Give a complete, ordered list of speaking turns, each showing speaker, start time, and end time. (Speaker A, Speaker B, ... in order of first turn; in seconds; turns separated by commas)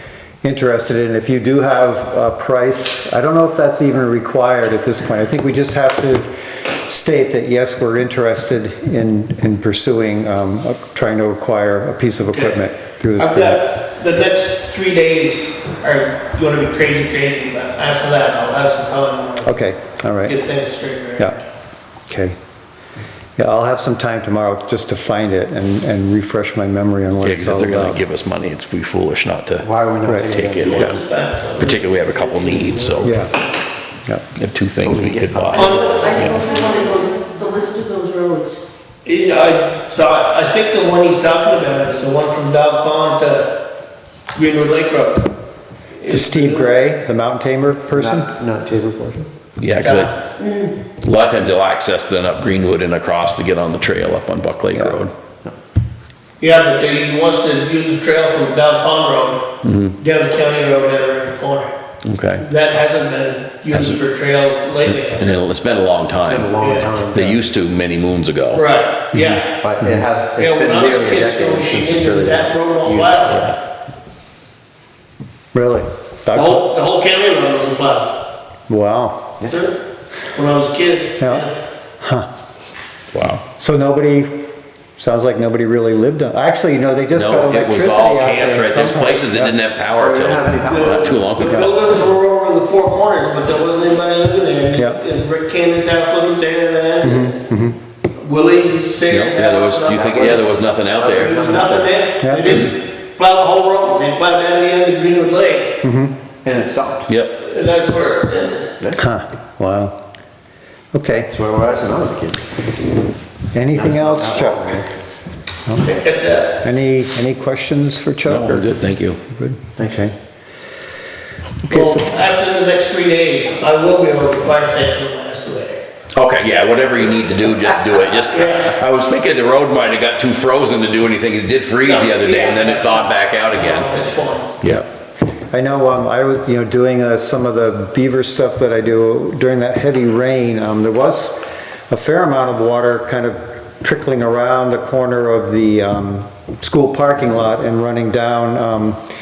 Speaker A: 0.4-13.6, Speaker B: 12.3-12.6, Speaker B: 13.2-19.6, Speaker A: 19.4-20.4, Speaker B: 20.2-21.4, Speaker A: 22.1-22.4, Speaker A: 23.4-28.0, Speaker C: 27.2-31.0, Speaker D: 29.6-31.0, Speaker A: 30.0-30.4, Speaker B: 30.6-31.9, Speaker C: 31.6-33.2, Speaker D: 32.3-33.1, Speaker A: 33.0-33.3, Speaker C: 34.4-36.4, Speaker D: 34.8-36.6, Speaker B: 35.5-36.4, Speaker E: 35.9-38.6, Speaker B: 39.0-43.5, Speaker B: 44.3-45.4, Speaker B: 46.0-46.8, Speaker A: 46.1-48.3, Speaker D: 47.9-49.3, Speaker C: 49.6-50.2, Speaker B: 49.8-50.1, Speaker E: 50.4-50.7, Speaker C: 51.0-55.1, Speaker A: 54.8-55.0, Speaker B: 56.4-59.5, Speaker C: 59.6-60.0, Speaker B: 60.0-61.7, Speaker C: 62.0-62.5, Speaker B: 62.4-65.3, Speaker C: 63.7-64.0, Speaker C: 64.8-68.6, Speaker D: 66.2-67.4, Speaker B: 66.6-66.9, Speaker B: 68.5-69.6, Speaker A: 69.1-70.1, Speaker D: 69.6-73.2, Speaker B: 70.3-73.5, Speaker C: 73.2-73.6, Speaker A: 75.5-76.7, Speaker B: 76.3-78.2, Speaker A: 78.7-79.4, Speaker B: 79.5-79.8, Speaker B: 80.3-81.5, Speaker A: 81.2-81.5, Speaker A: 82.0-82.3, Speaker C: 83.1-83.4, Speaker A: 83.6-84.5, Speaker A: 85.0-89.6, Speaker C: 87.1-91.8, Speaker D: 89.9-91.3, Speaker B: 90.7-97.3, Speaker A: 91.4-91.7, Speaker A: 97.0-97.8, Speaker B: 98.2-105.8, Speaker C: 99.1-101.4, Speaker D: 99.9-101.9, Speaker A: 102.2-102.6, Speaker A: 105.8-106.2, Speaker D: 106.4-107.1, Speaker C: 107.1-107.4, Speaker B: 107.4-108.8, Speaker D: 108.8-109.0, Speaker A: 109.0-110.0, Speaker A: 110.9-111.3, Speaker D: 111.3-112.5, Speaker A: 113.5-114.9, Speaker D: 113.7-114.9, Speaker A: 115.7-116.0, Speaker B: 115.8-116.6, Speaker A: 116.6-118.7, Speaker C: 118.3-119.2, Speaker A: 119.3-120.1, Speaker D: 119.8-120.1, Speaker B: 121.7-125.8, Speaker A: 121.7-122.1, Speaker C: 126.1-133.9, Speaker B: 128.1-128.8, Speaker B: 131.8-134.5, Speaker C: 134.6-134.9, Speaker A: 135.5-149.0